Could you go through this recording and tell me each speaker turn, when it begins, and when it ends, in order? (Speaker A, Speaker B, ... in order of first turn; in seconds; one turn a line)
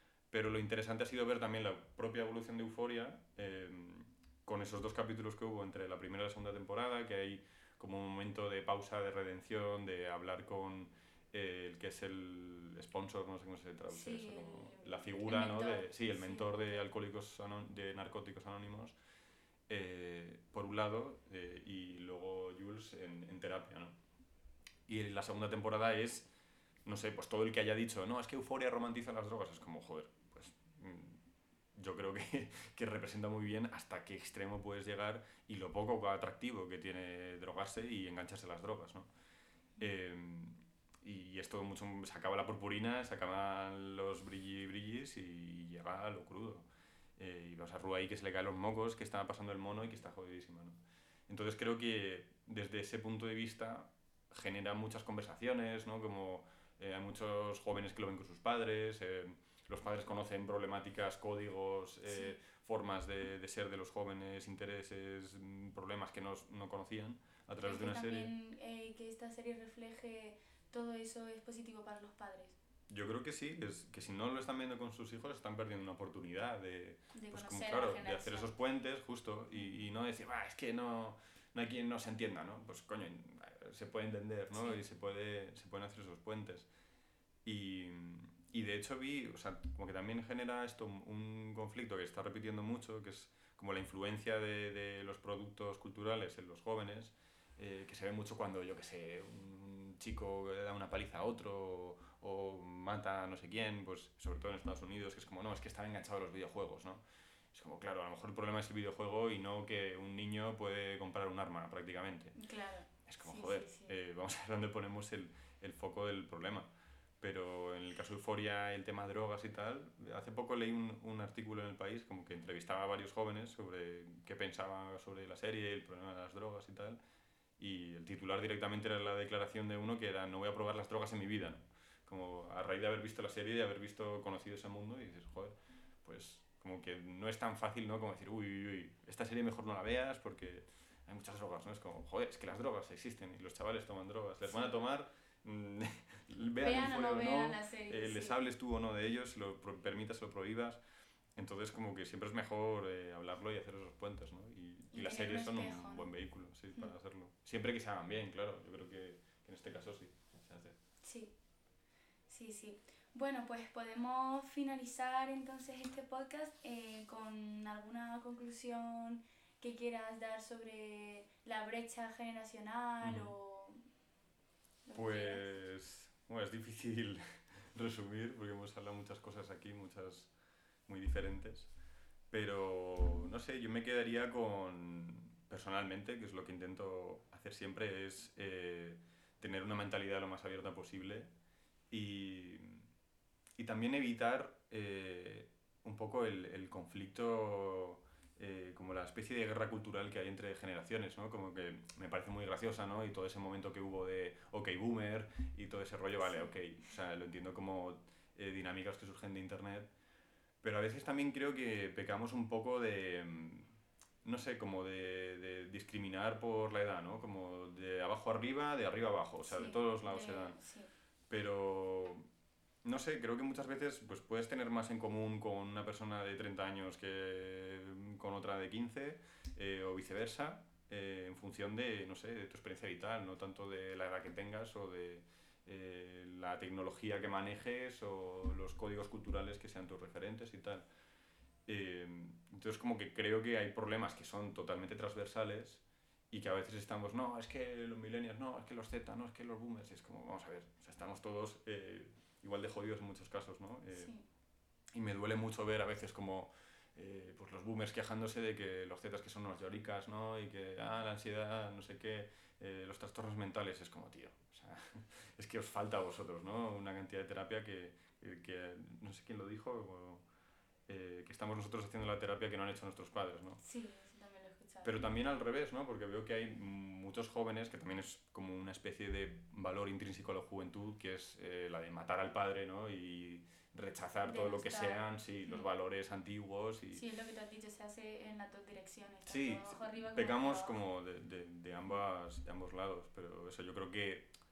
Speaker A: 0.3-19.0
Speaker B: 13.9-16.8
Speaker A: 19.7-24.0
Speaker A: 24.9-26.3
Speaker A: 26.9-31.2
Speaker A: 31.8-39.1
Speaker A: 39.8-50.8
Speaker A: 51.3-68.3
Speaker B: 62.1-62.4
Speaker B: 67.6-72.6
Speaker A: 72.9-86.7
Speaker B: 77.1-78.5
Speaker B: 84.5-84.8
Speaker A: 87.5-112.3
Speaker B: 112.3-113.9
Speaker A: 113.1-116.7
Speaker A: 117.2-127.0
Speaker A: 127.6-150.8
Speaker B: 146.6-148.4
Speaker A: 151.4-160.8
Speaker B: 154.9-156.1
Speaker B: 161.0-161.3
Speaker B: 162.3-173.8
Speaker A: 173.0-173.3
Speaker B: 174.8-175.4
Speaker A: 174.9-180.3
Speaker A: 180.9-181.7
Speaker A: 182.3-191.3
Speaker A: 191.9-192.9
Speaker A: 193.6-209.9
Speaker B: 206.2-206.5
Speaker A: 210.6-220.6
Speaker B: 219.4-220.9
Speaker A: 221.3-222.3
Speaker A: 222.8-240.9
Speaker A: 241.7-254.1
Speaker B: 253.9-254.3
Speaker A: 254.9-270.2
Speaker A: 270.9-273.6
Speaker B: 273.6-274.9
Speaker A: 274.8-287.0
Speaker B: 284.2-285.7
Speaker B: 286.9-290.8
Speaker A: 289.3-294.3